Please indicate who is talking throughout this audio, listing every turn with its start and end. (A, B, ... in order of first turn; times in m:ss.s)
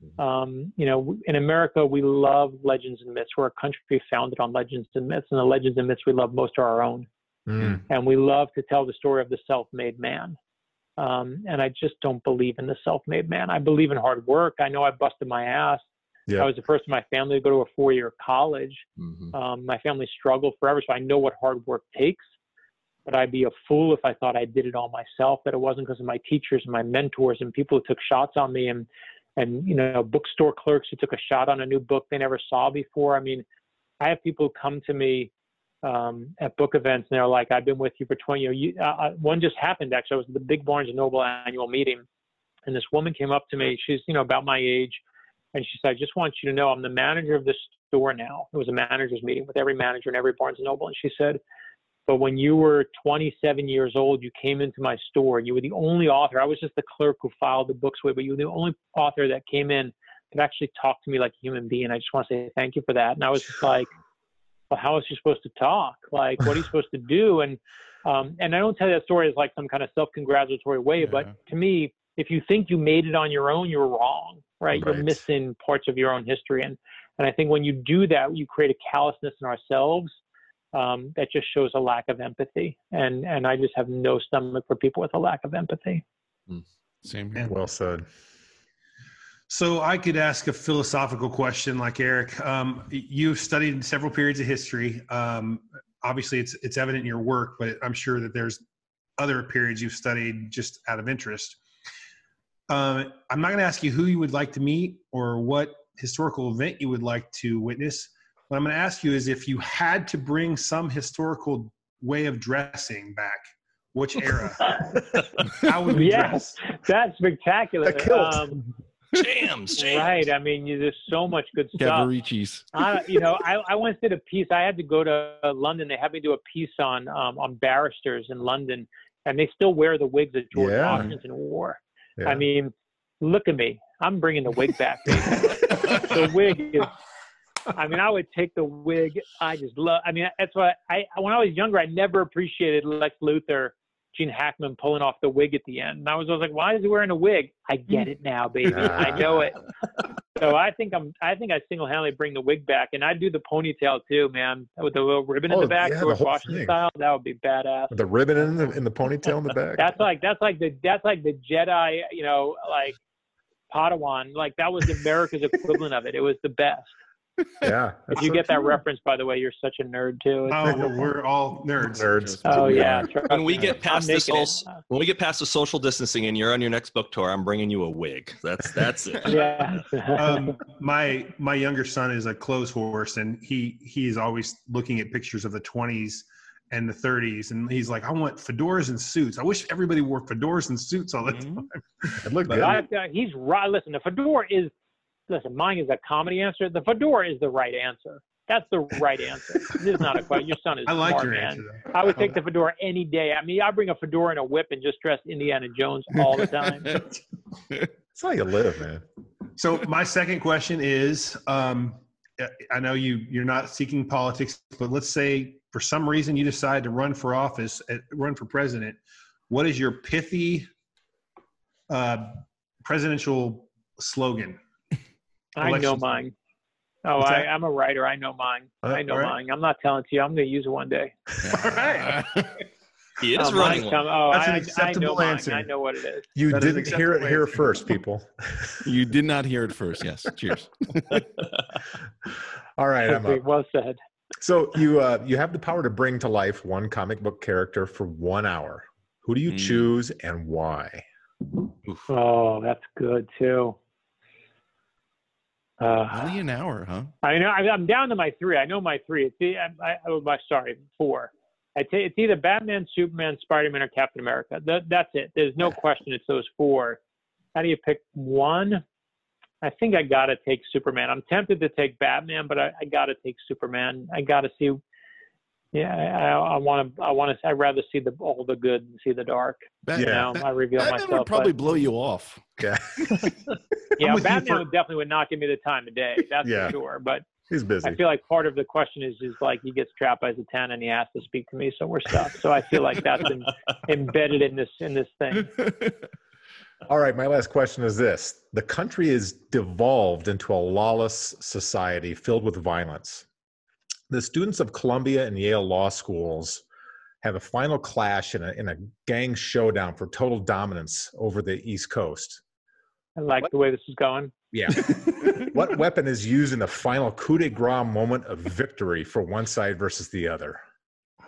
0:00.2-0:07.1 A
0:07.5-0:07.8 B
0:07.9-0:10.4 A
0:11.0-0:22.2 A
0:19.0-0:19.3 C
0:23.1-0:33.4 A
0:34.0-0:35.3 A
0:35.8-0:42.0 A
0:42.7-0:45.0 A
0:45.5-0:51.4 A
0:52.1-1:03.9 A
1:04.7-1:20.2 A
1:14.7-1:15.2 B
1:20.7-1:26.0 A
1:27.0-1:27.5 D
1:27.4-1:28.0 B
1:29.5-1:38.6 E
1:39.2-1:41.6 E
1:42.7-1:54.8 E
1:55.5-1:56.6 E
1:55.9-1:58.6 A
1:57.8-1:58.7 B
1:59.1-2:00.2 C
1:59.8-2:02.1 A
2:01.8-2:02.7 D
2:02.7-2:16.9 A
2:10.5-2:11.1 B
2:12.2-2:12.4 B
2:17.7-2:29.6 A
2:28.7-2:29.5 B
2:30.4-2:38.0 A
2:35.5-2:36.8 B
2:37.9-2:40.0 B
2:39.8-2:43.0 A
2:43.7-2:46.9 A
2:47.6-2:48.6 B
2:48.2-2:51.0 A
2:50.5-2:52.2 E
2:51.9-2:53.1 B
2:52.1-2:53.0 D
2:52.4-2:54.7 A
2:53.3-2:59.7 C
2:59.2-3:00.6 A
3:00.1-3:12.7 E
3:11.3-3:11.6 D
3:12.2-3:12.8 B
3:12.5-3:14.7 A
3:15.3-3:27.0 A
3:20.9-3:21.9 E
3:28.1-3:29.0 B
3:29.6-3:40.7 E
3:41.9-3:44.6 E
3:45.6-3:46.3 A
3:45.6-3:46.2 E
3:47.0-3:51.1 A
3:47.2-3:47.5 E
3:49.1-3:49.4 E
3:51.4-3:52.7 D
3:51.6-3:52.2 E
3:53.2-3:54.0 C
3:53.4-3:56.3 A
3:54.3-3:55.6 E
3:56.4-3:58.9 B
3:56.5-3:57.7 E
3:58.8-4:01.3 D
4:02.3-4:03.4 B
4:03.0-4:04.0 A
4:04.4-4:11.0 B
4:09.5-4:09.9 D
4:12.1-4:13.8 A
4:15.8-4:16.4 A
4:16.1-4:17.1 D
4:17.2-4:27.0 A
4:27.6-4:28.8 A
4:29.6-4:34.8 A
4:35.7-4:41.5 A
4:39.8-4:42.6 D
4:40.0-4:40.3 B
4:42.6-4:43.4 B
4:44.0-4:47.3 A
4:44.0-4:44.6 E
4:46.4-4:46.8 B
4:47.5-4:48.0 B
4:47.8-4:55.6 A
4:56.9-5:03.2 B
5:04.1-5:06.6 B
5:07.2-5:12.4 B
5:13.2-5:14.3 A
5:14.5-5:20.6 B